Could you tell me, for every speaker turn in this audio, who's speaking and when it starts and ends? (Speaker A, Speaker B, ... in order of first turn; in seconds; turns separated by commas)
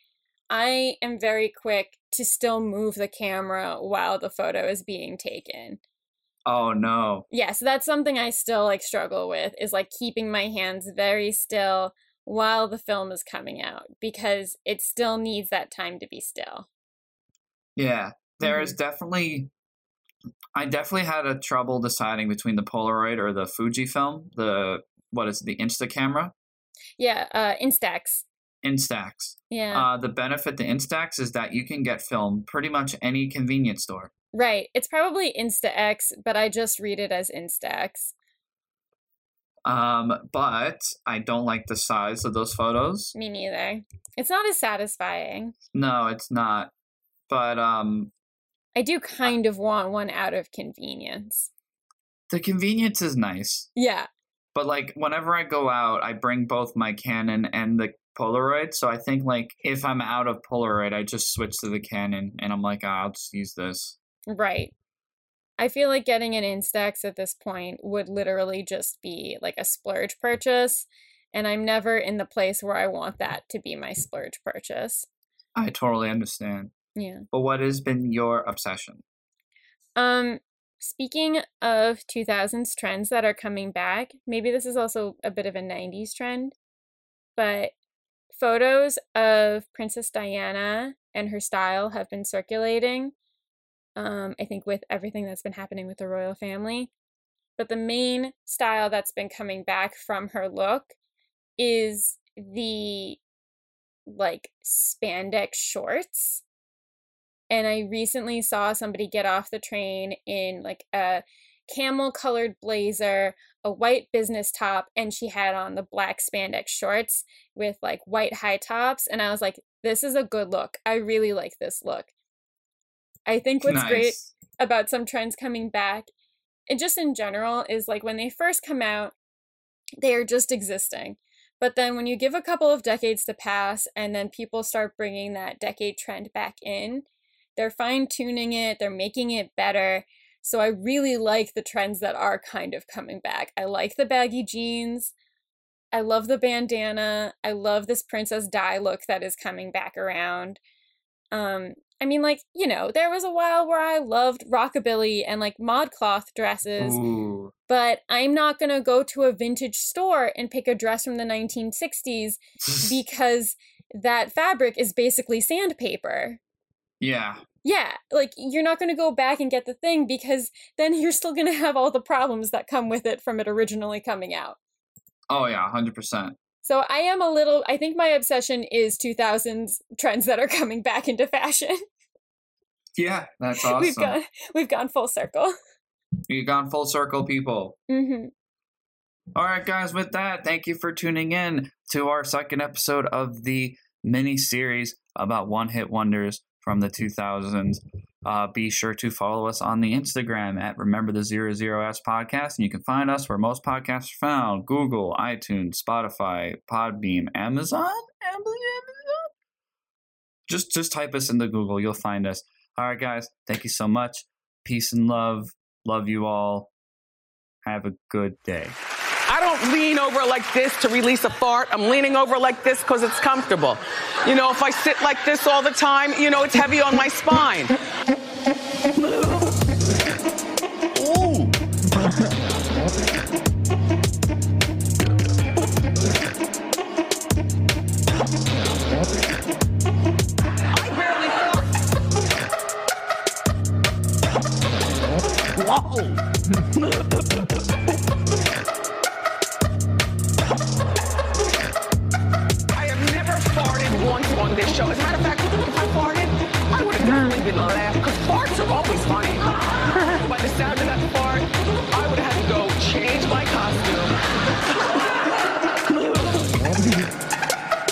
Speaker A: 0.5-5.8, Speaker B: 6.5-7.3, Speaker A: 7.3-16.7, Speaker B: 17.8-19.5, Speaker A: 18.4-18.7, Speaker B: 20.6-26.3, Speaker A: 27.0-28.2, Speaker B: 28.6-34.1, Speaker A: 29.5-29.9, Speaker A: 34.3-38.1, Speaker B: 39.6-43.1, Speaker A: 43.1-45.5, Speaker B: 45.7-46.7, Speaker B: 47.3-48.1, Speaker A: 48.8-51.5, Speaker B: 52.3-53.7, Speaker A: 53.8-54.1, Speaker B: 54.5-64.0, Speaker A: 64.3-64.7, Speaker A: 65.6-75.1, Speaker B: 75.6-76.7, Speaker A: 77.0-77.2, Speaker B: 77.3-79.0, Speaker A: 80.0-86.5, Speaker A: 87.4-87.7, Speaker A: 88.3-93.1, Speaker A: 94.0-96.9, Speaker A: 97.6-100.9, Speaker A: 101.6-103.2, Speaker A: 104.1-106.4, Speaker A: 107.5-122.1, Speaker A: 123.3-126.1, Speaker B: 123.6-124.3, Speaker A: 126.7-129.1, Speaker A: 130.0-145.1, Speaker A: 145.9-150.6, Speaker A: 151.3-157.0, Speaker B: 156.8-157.5, Speaker A: 157.7-166.4, Speaker B: 162.6-162.9, Speaker B: 167.0-167.4, Speaker A: 167.6-174.6, Speaker B: 175.3-176.3, Speaker A: 176.6-181.8, Speaker B: 183.0-184.2, Speaker A: 183.6-185.5, Speaker B: 186.3-187.8, Speaker A: 187.9-188.3, Speaker B: 189.3-209.3, Speaker B: 210.5-216.7, Speaker B: 217.6-218.7, Speaker C: 219.3-227.7, Speaker C: 229.0-229.6, Speaker C: 231.0-231.5, Speaker C: 240.7-241.7, Speaker C: 245.7-246.1, Speaker C: 246.8-247.4, Speaker C: 252.7-264.1, Speaker C: 265.9-266.6